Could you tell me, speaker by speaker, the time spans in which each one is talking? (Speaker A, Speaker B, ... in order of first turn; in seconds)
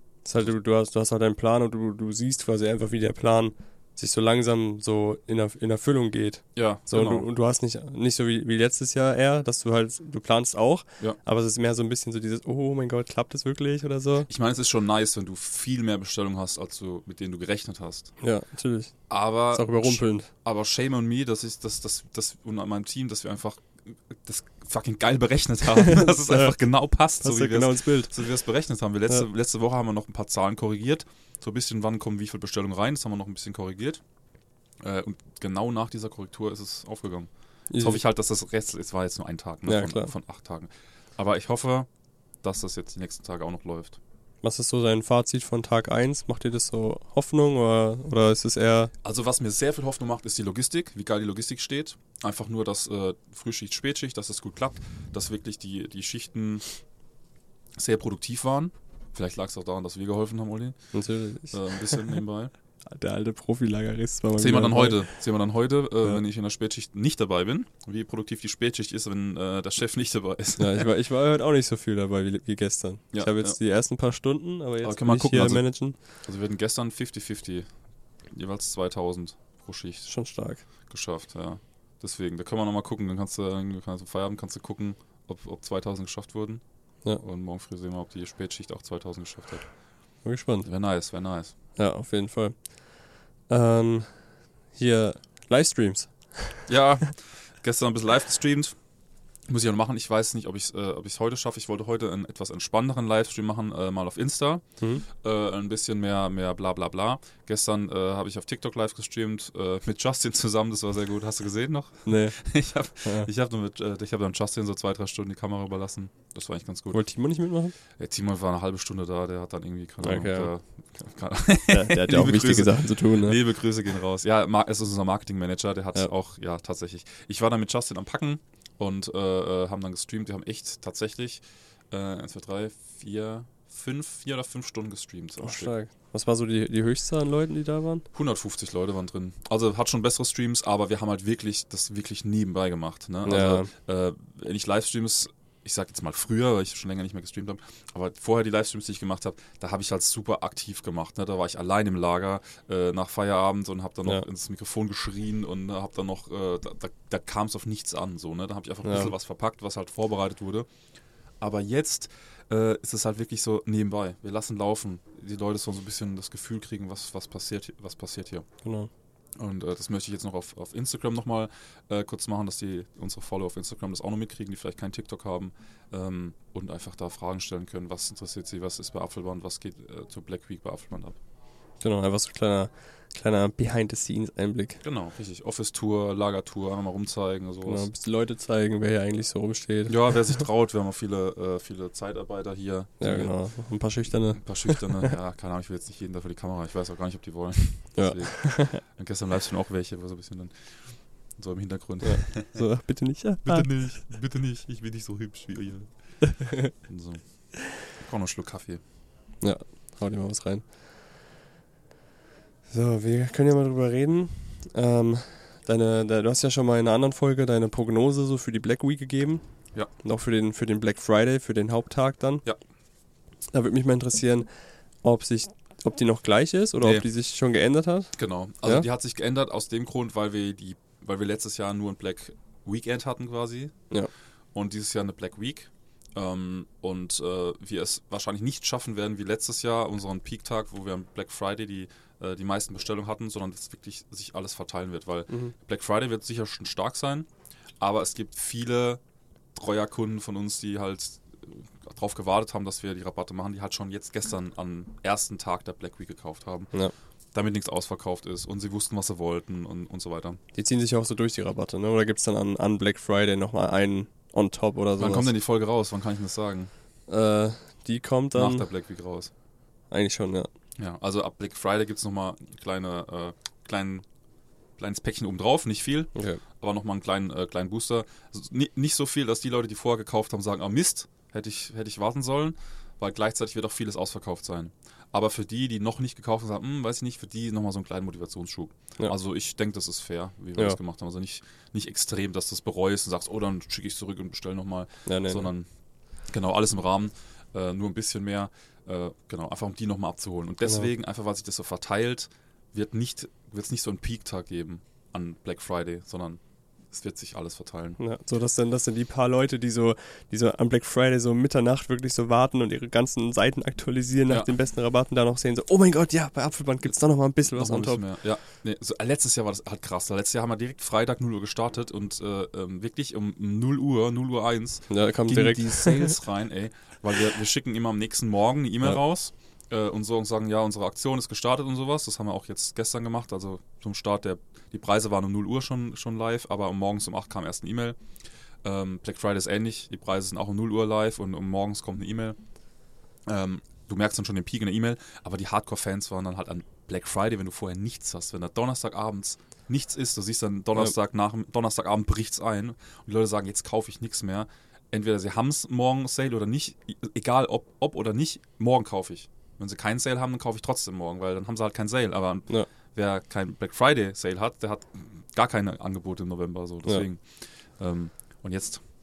Speaker A: 0.2-14.3, 18.2-18.9, 19.5-20.3, 25.8-26.6, 27.2-28.1, 37.7-38.0, 39.7-40.1, 44.4-48.9, 60.9-62.1, 62.9-65.0, 70.6-76.0, 80.1-80.6, 90.2-90.7, 91.8-93.0, 93.5-94.2, 94.7-96.7, 112.0-112.4, 113.0-113.3, 116.9-117.7, 120.0-120.5, 121.7-123.4, 135.4-138.1, 143.2-143.7, 158.8-159.1, 168.6-168.9, 181.8-184.8, 187.7-190.4, 193.0-195.1, 197.9-198.8, 202.0-203.7, 206.4-206.7, 209.4-210.7, 212.7-219.4, 220.0-222.4, 223.5-224.5, 225.0-228.1, 260.5-265.3, 267.1-268.7, 269.9-270.5, 276.1-276.4, 295.1-295.5, 300.6-300.9, 308.0-318.0, 324.9-326.1
Speaker B: 6.5-7.2, 14.3-18.1, 19.1-34.0, 34.8-41.9, 42.4-44.0, 49.0-56.6, 57.8-60.8, 61.5-62.5, 64.3-70.9, 73.1-73.5, 74.8-75.6, 76.2-77.7, 78.3-80.1, 80.9-86.6, 87.2-89.7, 90.6-91.5, 96.7-98.8, 99.5-117.0, 118.0-135.7, 138.1-160.7, 161.4-168.5, 169.4-181.2, 184.8-187.9, 189.9-193.3, 194.3-200.7, 201.3-202.6, 203.4-208.8, 226.8-227.1, 228.1-233.7, 234.5-247.3, 247.8-249.0, 249.5-256.7, 257.3-260.4, 265.0-266.7, 268.3-269.3, 270.8-274.0, 274.8-295.7, 296.3-306.4, 306.9-308.0, 317.5-338.0, 338.6-342.4, 343.3-367.2, 367.8-368.8